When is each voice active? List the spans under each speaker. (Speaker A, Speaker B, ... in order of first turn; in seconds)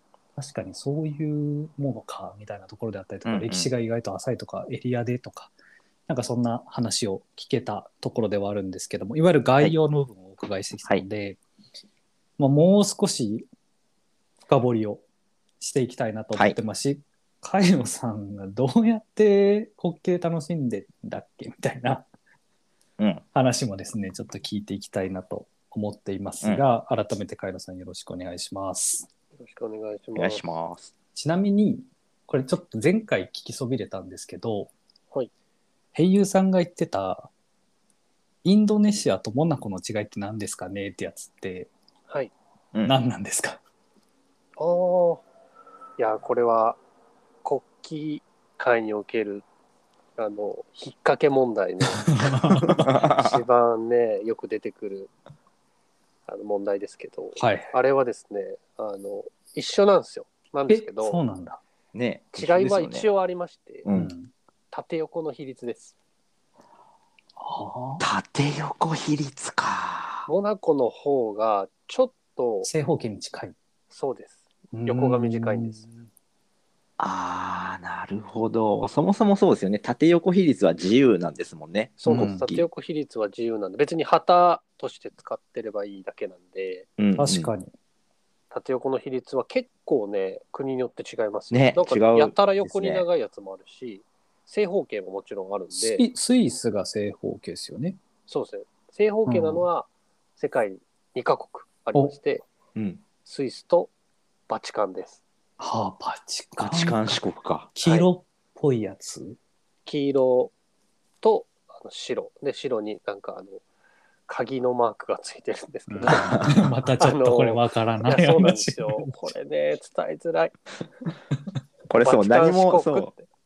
Speaker A: 0.4-5.5, 6.1-11.4, 12.4-13.5, 14.5-15.0, 15.6-22.1, 23.3-29.1, 31.1-34.7, 35.9-37.3, 38.4-41.7, 42.8-43.6, 51.9-52.9, 57.4-57.7, 60.7-61.6, 63.9-64.3, 67.4-68.0, 72.7-73.5, 74.7-76.1, 82.1-82.5, 87.2-87.7, 95.7-98.0, 99.3-99.7, 105.6-107.2, 107.8-109.4, 115.9-119.3
Speaker B: 3.2-3.7, 30.1-30.9, 52.7-53.4, 61.9-63.1, 63.9-64.1, 68.0-70.3, 77.0-82.7, 87.0-87.5, 91.5-93.0, 102.8-103.0, 106.6-107.7, 116.1-116.5, 121.9-123.1
Speaker C: 29.4-30.4, 44.6-45.2, 46.0-46.8, 47.4-49.5, 50.2-52.1, 52.7-55.1, 56.3-61.2, 62.4-63.9, 64.7-65.9, 70.3-72.7, 73.9-75.9, 82.0-86.9, 88.5-96.0, 98.3-102.5, 103.2-103.9, 104.5-105.2, 109.9-110.5, 111.2-113.6, 114.3-116.4, 117.0-120.5, 122.0-123.3